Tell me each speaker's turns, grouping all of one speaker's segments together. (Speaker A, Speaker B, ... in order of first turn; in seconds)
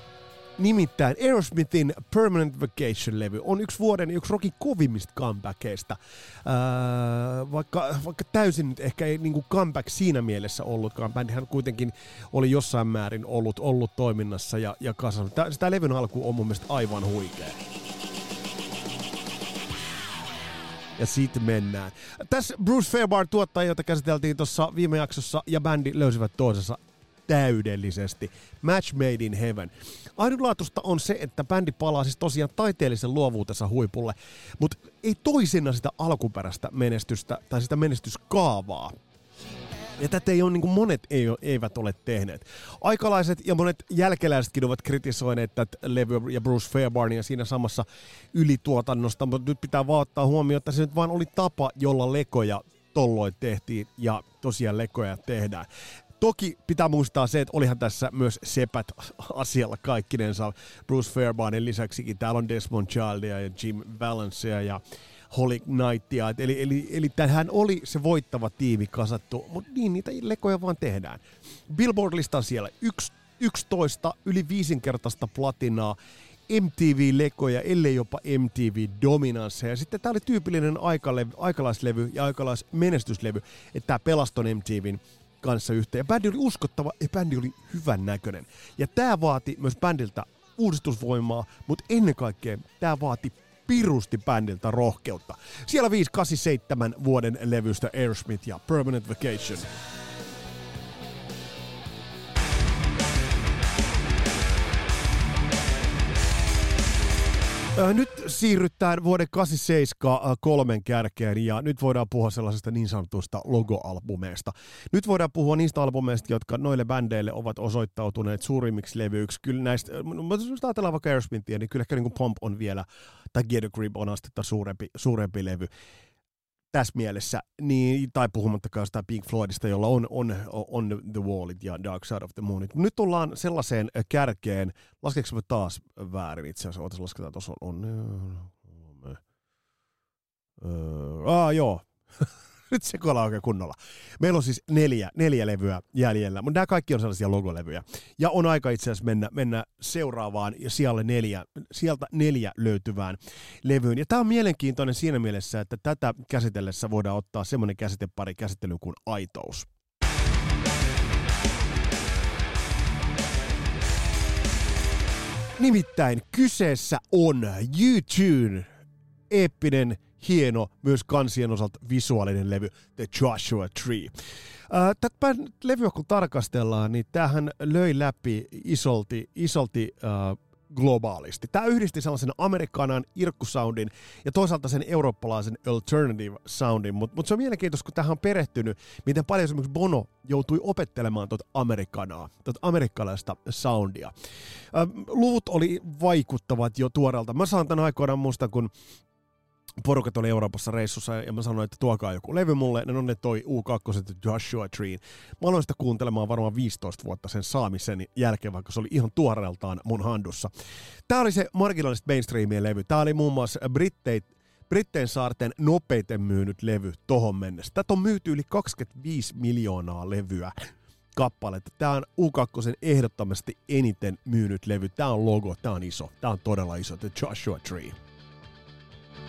Speaker A: 0.6-17.6, 21.0-38.9, 40.0-55.7, 56.2-64.8, 65.3-75.9, 76.5-99.7, 107.7-125.7, 126.7-139.2, 140.6-159.7, 165.6-168.7, 169.3-174.1, 174.7-194.1, 194.7-198.7, 199.8-210.5, 211.1-227.9